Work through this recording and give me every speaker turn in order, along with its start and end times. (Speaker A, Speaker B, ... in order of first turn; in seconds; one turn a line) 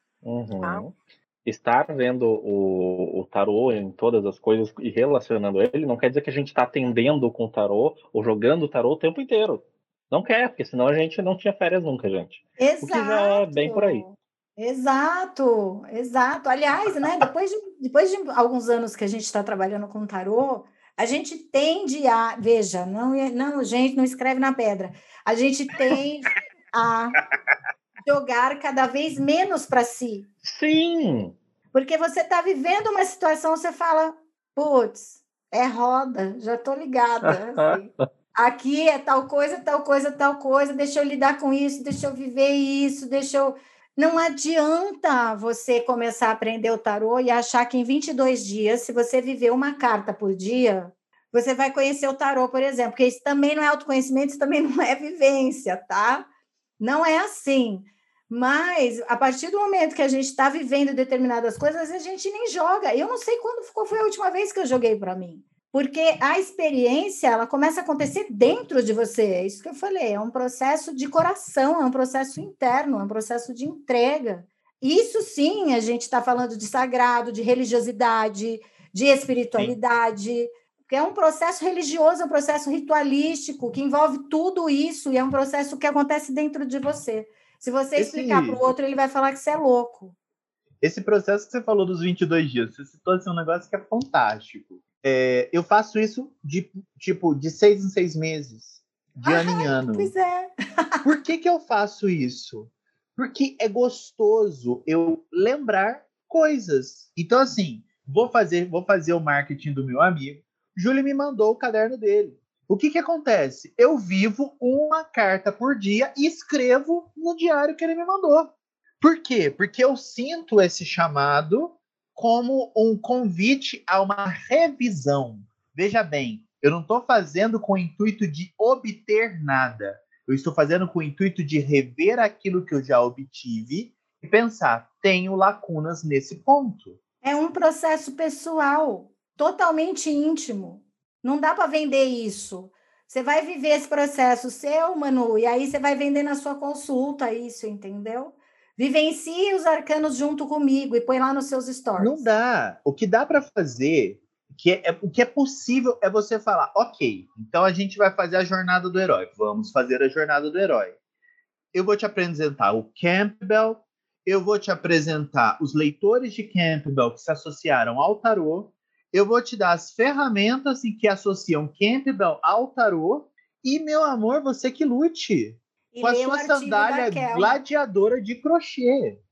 Speaker A: 0.2-14.0
Speaker B: 12.6-27.2
Speaker B: 28.1-30.3
Speaker A: 30.4-31.4
Speaker B: 31.7-56.3
Speaker A: 37.3-37.8
Speaker B: 56.8-90.2
Speaker C: 88.0-88.6
Speaker C: 90.8-100.1
Speaker B: 99.2-100.5
Speaker C: 101.0-137.0
Speaker B: 137.2-152.3
Speaker C: 152.0-161.0
Speaker C: 161.7-179.2
Speaker B: 175.9-177.6